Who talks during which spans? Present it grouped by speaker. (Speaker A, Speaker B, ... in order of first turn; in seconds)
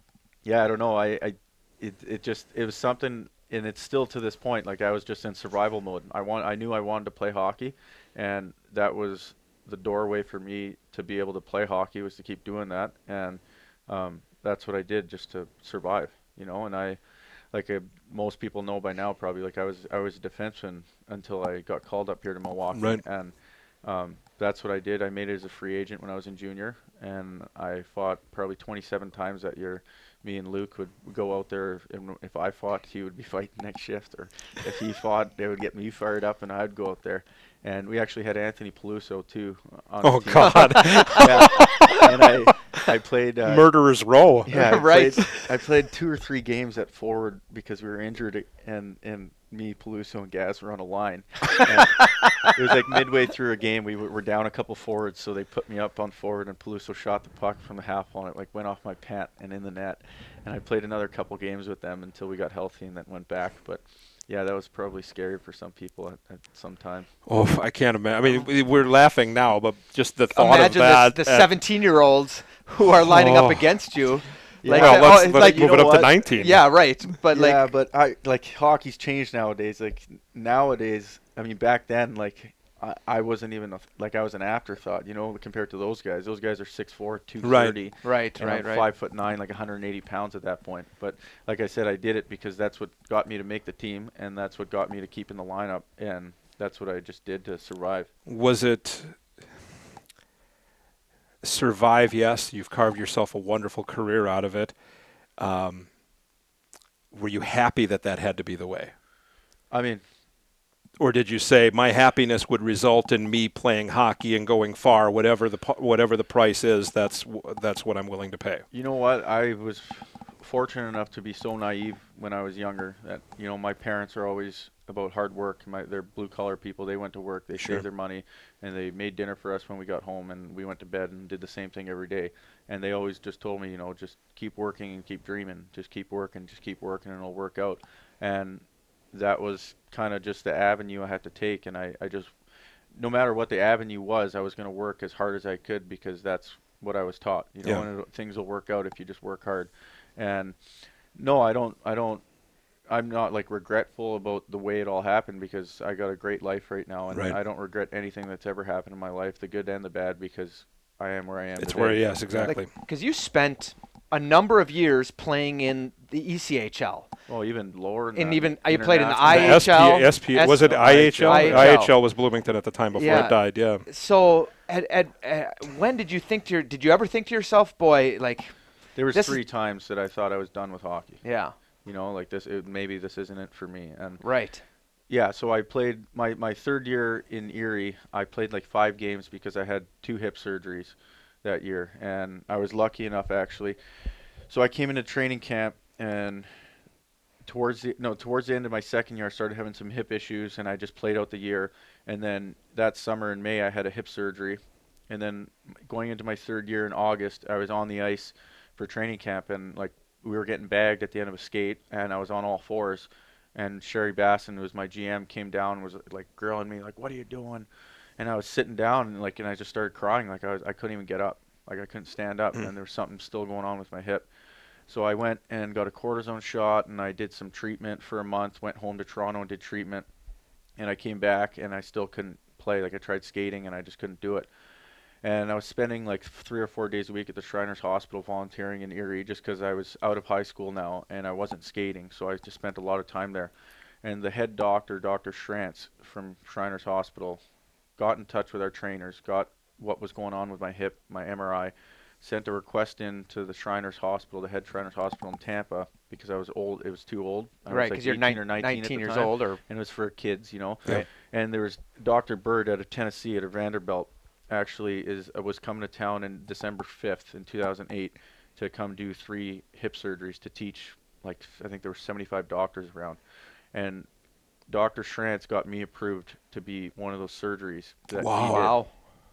Speaker A: 0.4-43.8, 44.5-67.1, 74.6-76.6, 77.3-98.1, 109.7-110.0, 118.7-142.4, 142.9-152.2, 152.9-162.5, 167.3-171.9, 178.9-181.2, 181.8-184.3, 185.1-196.8, 197.4-224.3, 224.9-230.1, 230.8-234.5, 235.2-247.4, 248.0-273.2, 273.7-274.1, 274.7-279.0
Speaker B: 22.7-23.0, 40.0-42.0, 43.5-45.3, 67.3-71.6, 73.0-73.8, 74.7-76.8, 87.4-87.8, 98.3-99.4, 101.4-104.8, 105.4-105.9, 107.1-108.9, 111.0-118.7, 157.1-157.4, 161.6-162.7, 169.3-173.8, 278.2-278.8
Speaker C: 40.4-41.8, 44.5-45.3, 70.3-77.7, 88.0-88.9, 162.3-167.1, 168.2-172.3, 172.9-179.4, 181.2-181.5, 184.2-184.6, 257.7-259.6, 278.4-278.9